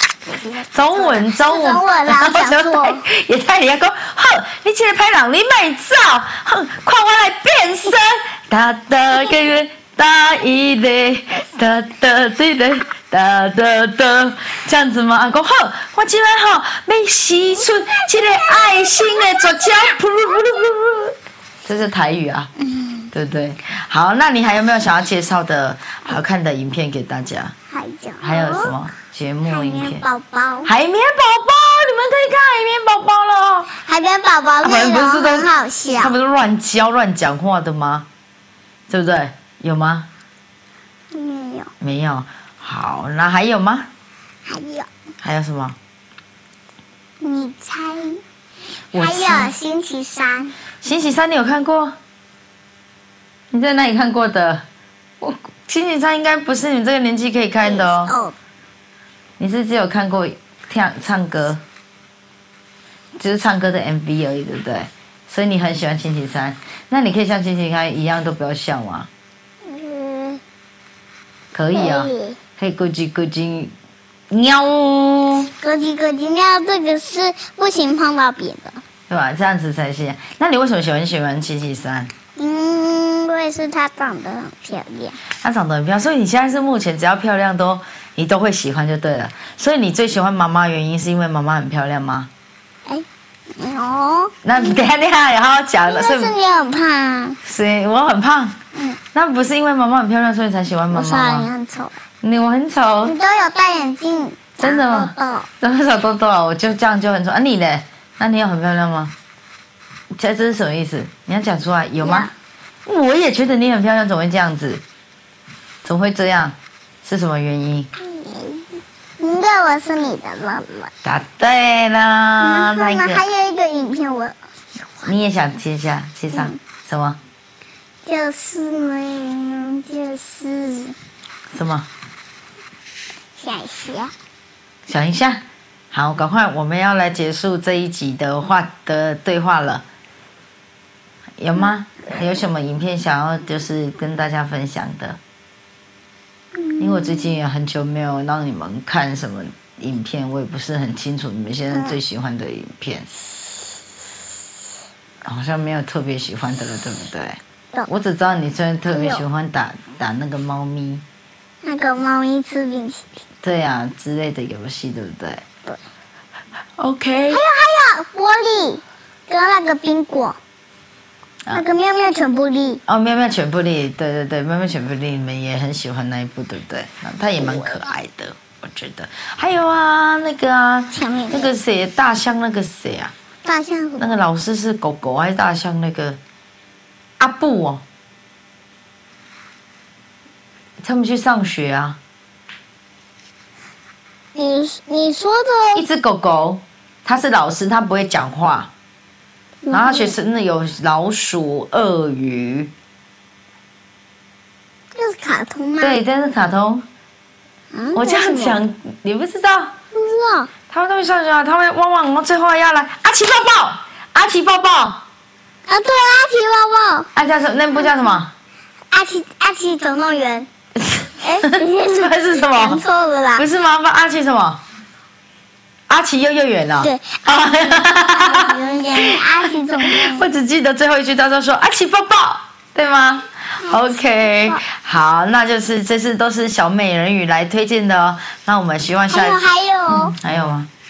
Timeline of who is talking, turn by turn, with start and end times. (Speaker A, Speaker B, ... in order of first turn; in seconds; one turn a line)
Speaker A: 0.3-3.0
Speaker B: 0.7-22.5
Speaker A: 17.5-20.0
Speaker A: 22.6-23.1
Speaker B: 23.1-27.5
Speaker A: 27.7-28.7
Speaker B: 28.2-30.0
Speaker A: 29.5-30.7
Speaker B: 30.6-33.7
Speaker A: 33.7-36.1
Speaker B: 34.6-35.5
Speaker B: 36.0-38.1
Speaker B: 38.9-40.1
Speaker A: 41.1-41.7
Speaker B: 41.8-43.9
Speaker A: 44.5-44.9
Speaker B: 45.2-45.8
Speaker A: 47.2-48.2
Speaker B: 48.9-49.5
Speaker A: 48.9-50.5
Speaker B: 50.8-52.0
Speaker B: 53.5-54.6
Speaker B: 55.2-58.1
Speaker A: 57.6-58.4
Speaker B: 59.4-61.6
Speaker B: 63.2-69.1
Speaker A: 69.6-70.4
Speaker B: 71.5-73.7
Speaker A: 71.7-72.4
Speaker B: 74.3-75.5
Speaker A: 75.6-78.8
Speaker B: 79.1-82.1
Speaker A: 82.4-85.2
Speaker B: 85.4-92.3
Speaker A: 92.9-94.8
Speaker B: 94.4-96.3
Speaker A: 95.9-97.4
Speaker B: 97.4-98.5
Speaker A: 98.7-99.0
Speaker B: 99.1-101.5
Speaker A: 100.9-102.0
Speaker B: 102.2-103.1
Speaker A: 103.0-105.5
Speaker B: 104.6-109.1
Speaker B: 110.1-112.3
Speaker A: 112.0-112.3
Speaker B: 112.9-114.8
Speaker B: 115.8-117.9
Speaker A: 118.0-120.9
Speaker B: 121.0-123.2
Speaker A: 122.4-124.3
Speaker B: 125.0-127.2
Speaker A: 126.3-126.6
Speaker A: 128.0-130.9
Speaker B: 131.5-131.9
Speaker A: 133.4-134.1
Speaker B: 134.9-139.8
Speaker B: 141.4-145.2
Speaker A: 146.5-147.4
Speaker B: 146.8-153.1
Speaker A: 151.7-151.9
Speaker B: 155.2-161.0
Speaker A: 158.9-159.2
Speaker A: 161.6-163.2
Speaker B: 163.4-165.4
Speaker B: 166.8-167.4
Speaker A: 167.3-170.4
Speaker A: 171.5-172.8
Speaker B: 172.9-183.1
Speaker A: 180.9-181.5
Speaker A: 183.4-184.2
Speaker B: 184.0-186.2
Speaker B: 187.2-187.8
Speaker B: 190.8-192.0
Speaker A: 194.3-195.8
Speaker B: 195.8-198.7
Speaker A: 199.6-200.1
Speaker B: 199.7-202.7
Speaker A: 204.9-206.0
Speaker B: 205.8-206.9
Speaker A: 207.7-208.6
Speaker B: 207.9-209.8
Speaker A: 209.9-210.5
Speaker B: 210.7-215.0
Speaker A: 215.7-217.1
Speaker B: 217.1-218.3
Speaker A: 218.9-220.5
Speaker B: 220.8-222.8
Speaker A: 221.2-223.4
Speaker B: 223.4-224.6
Speaker B: 225.9-229.2
Speaker A: 226.8-227.2
Speaker A: 228.0-230.3
Speaker B: 229.8-240.7
Speaker A: 233.6-234.6
Speaker A: 239.1-240.1